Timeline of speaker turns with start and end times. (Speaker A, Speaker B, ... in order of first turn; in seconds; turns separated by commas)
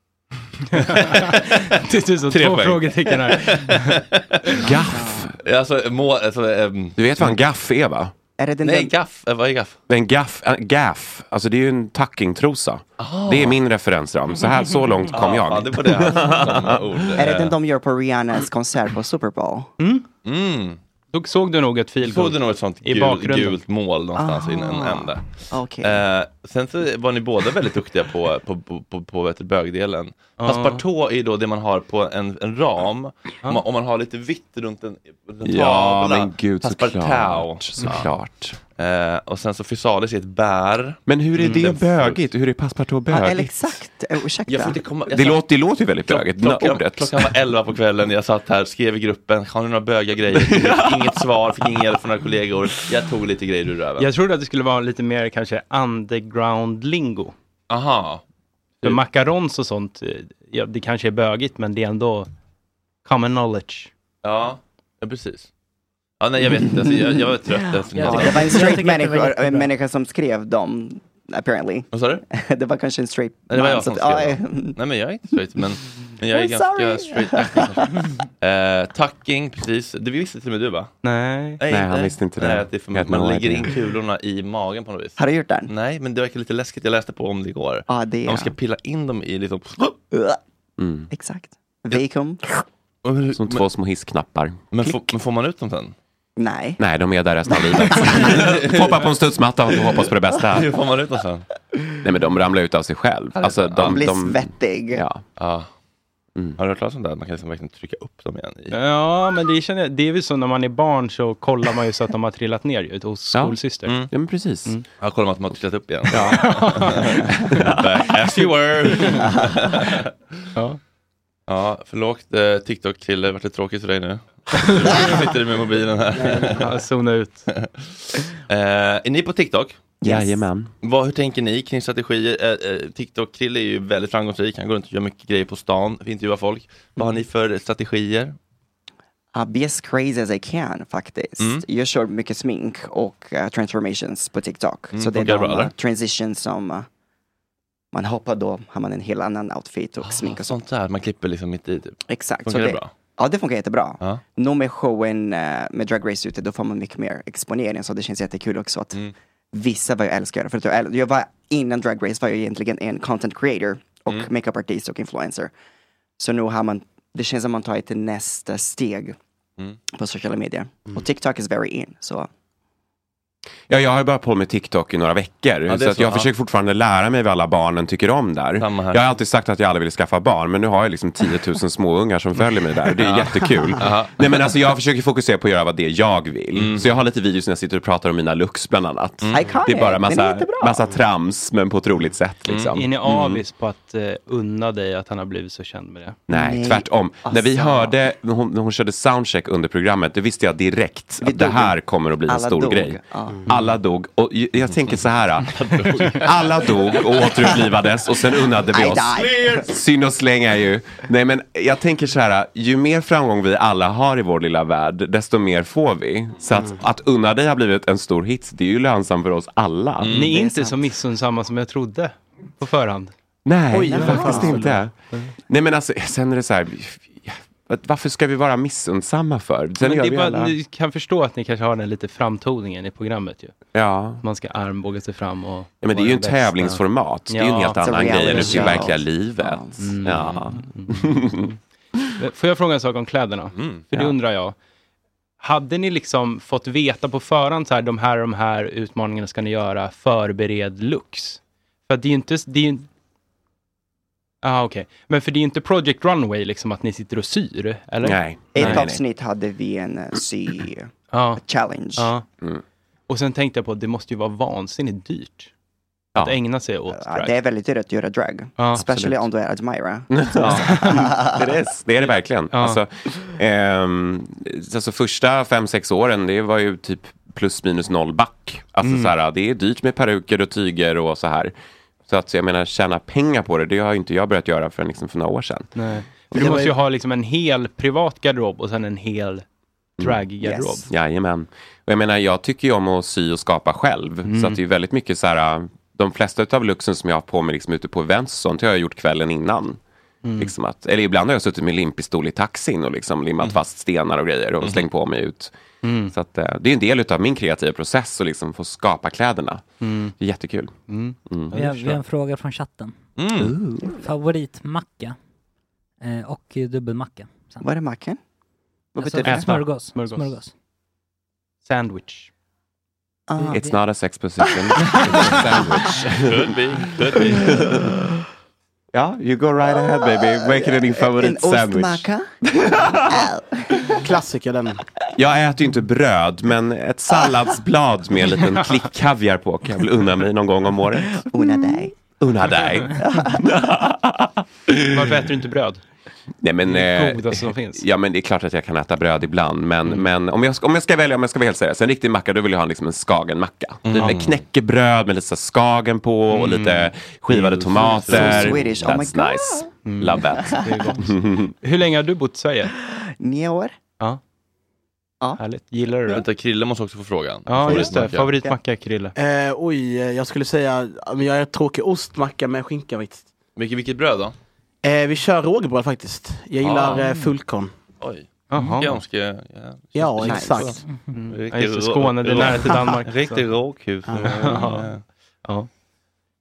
Speaker A: 0.7-4.0, Speaker B: 0.8-1.6, Speaker B: 2.3-4.8, Speaker C: 4.6-5.3, Speaker B: 5.4-7.4, Speaker C: 7.0-8.1, Speaker D: 8.4-8.9, Speaker B: 8.6-9.8, Speaker C: 9.9-17.0, Speaker B: 13.0-13.6, Speaker B: 15.1-17.5, Speaker D: 17.2-19.7, Speaker A: 19.8-20.1, Speaker B: 20.2-20.8, Speaker A: 21.1-23.6, Speaker B: 22.0-38.1, Speaker D: 24.1-26.0, Speaker A: 30.4-30.8, Speaker C: 35.4-38.6, Speaker B: 38.8-42.2, Speaker C: 41.0-43.8, Speaker D: 43.1-44.8, Speaker B: 44.5-45.5, Speaker C: 45.1-47.3, Speaker B: 46.0-54.1, Speaker C: 50.3-51.2, Speaker A: 54.0-57.3, Speaker B: 57.7-58.2, Speaker A: 58.8-62.3, Speaker A: 63.0-63.9, Speaker B: 64.2-65.5, Speaker B: 66.2-68.8, Speaker D: 66.7-67.1, Speaker E: 67.9-69.7, Speaker D: 68.0-74.8, Speaker B: 71.9-72.2, Speaker B: 73.5-80.9, Speaker D: 76.3-78.0, Speaker A: 81.0-81.6, Speaker B: 81.6-89.9, Speaker C: 81.7-83.8, Speaker D: 85.2-85.7, Speaker D: 87.9-88.5, Speaker D: 90.1-90.4, Speaker C: 90.8-91.1, Speaker D: 91.1-92.6, Speaker B: 93.0-93.6, Speaker C: 93.3-95.0, Speaker B: 94.7-95.9, Speaker D: 96.4-96.8, Speaker C: 96.8-100.7, Speaker B: 98.0-99.1, Speaker B: 100.5-101.4, Speaker C: 102.0-105.2, Speaker B: 103.3-104.1, Speaker D: 103.8-105.0, Speaker B: 105.4-105.7, Speaker B: 106.6-108.8, Speaker A: 108.7-114.0, Speaker B: 113.8-114.1, Speaker C: 114.1-114.8, Speaker B: 115.0-120.1, Speaker C: 116.1-116.4, Speaker A: 116.2-117.4, Speaker C: 117.5-117.8, Speaker B: 121.5-126.7, Speaker A: 124.6-125.0, Speaker A: 126.5-127.5, Speaker B: 127.5-127.8, Speaker B: 128.5-129.8, Speaker D: 130.0-130.4, Speaker C: 130.0-130.7, Speaker B: 130.8-138.3, Speaker D: 139.3-146.9, Speaker B: 141.4-141.6, Speaker B: 144.9-145.7, Speaker D: 147.9-150.6, Speaker B: 150.0-152.9, Speaker D: 152.1-159.0, Speaker D: 159.5-165.5, Speaker D: 166.2-169.2, Speaker D: 169.9-172.3, Speaker C: 173.7-192.9, Speaker B: 175.7-176.3, Speaker B: 178.6-179.1, Speaker B: 183.0-184.5, Speaker B: 186.5-186.9, Speaker B: 189.2-189.5, Speaker D: 189.3-190.9, Speaker B: 192.5-193.4, Speaker A: 192.7-196.2, Speaker C: 196.3-220.3, Speaker D: 196.3-198.0, Speaker D: 201.2-203.4, Speaker B: 205.5-207.6, Speaker D: 208.7-209.6, Speaker B: 209.1-209.7, Speaker B: 220.0-220.3, Speaker A: 220.1-223.1, Speaker D: 220.2-220.8, Speaker C: 223.4-224.9, Speaker F: 223.7-224.8, Speaker D: 223.9-224.6, Speaker A: 223.9-225.3, Speaker C: 225.5-230.5, Speaker A: 229.8-233.5, Speaker C: 233.7-234.2, Speaker A: 234.2-238.8, Speaker C: 235.8-241.5, Speaker D: 237.7-239.8, Speaker A: 239.8-241.5, Speaker A: 242.2-244.6, Speaker B: 243.5-243.9, Speaker A: 245.4-252.9, Speaker A: 254.4-258.9, Speaker C: 258.0-259.0, Speaker D: 258.5-262.1, Speaker A: 261.1-261.4, Speaker A: 262.0-262.2, Speaker A: 263.1-265.5, Speaker A: 266.1-267.4, Speaker D: 266.9-271.5, Speaker A: 268.6-269.1, Speaker C: 268.8-269.2, Speaker C: 270.1-281.5, Speaker A: 270.5-271.1, Speaker A: 272.5-272.8, Speaker A: 278.8-279.1, Speaker C: 282.1-285.7, Speaker A: 285.7-289.4, Speaker C: 286.3-286.6, Speaker F: 286.4-286.7, Speaker C: 290.0-290.3, Speaker A: 290.0-290.9, Speaker D: 290.4-290.9, Speaker C: 290.9-299.8, Speaker A: 294.2-294.6, Speaker A: 300.2-300.5, Speaker C: 300.4-305.5, Speaker A: 305.8-306.1, Speaker C: 306.1-310.7, Speaker A: 309.8-310.1, Speaker A: 310.9-312.0, Speaker C: 311.3-311.5, Speaker E: 311.5-312.9, Speaker B: 313.2-313.6, Speaker C: 313.3-313.9, Speaker E: 314.0-315.2, Speaker E: 316.0-317.6, Speaker D: 317.6-318.2, Speaker D: 318.9-319.6, Speaker E: 319.0-320.5, Speaker A: 319.2-320.4, Speaker A: 321.6-322.3, Speaker D: 323.3-323.8, Speaker E: 323.4-323.8, Speaker C: 323.5-326.5, Speaker D: 324.4-325.4, Speaker B: 326.1-327.7, Speaker C: 328.9-332.1, Speaker D: 329.6-333.9, Speaker C: 332.9-333.2, Speaker F: 334.0-334.8, Speaker C: 335.2-345.0, Speaker D: 341.1-342.0, Speaker D: 343.0-343.4, Speaker A: 344.9-345.8, Speaker C: 346.4-361.5, Speaker A: 346.6-347.8, Speaker B: 353.8-354.4, Speaker A: 354.0-354.2, Speaker A: 356.3-356.9, Speaker B: 357.3-358.7, Speaker D: 357.9-359.7, Speaker A: 359.8-361.0, Speaker D: 360.2-360.6, Speaker A: 361.6-362.7, Speaker D: 363.2-363.7, Speaker A: 365.4-366.2, Speaker B: 366.1-368.4, Speaker A: 367.5-369.1, Speaker D: 367.6-368.6, Speaker F: 369.1-373.3, Speaker B: 373.6-374.3, Speaker F: 374.8-377.7, Speaker B: 376.6-377.1, Speaker B: 378.0-385.0, Speaker A: 378.5-379.0, Speaker F: 379.9-380.8, Speaker D: 380.2-380.6, Speaker A: 381.1-383.4, Speaker F: 384.1-384.6, Speaker A: 384.1-384.9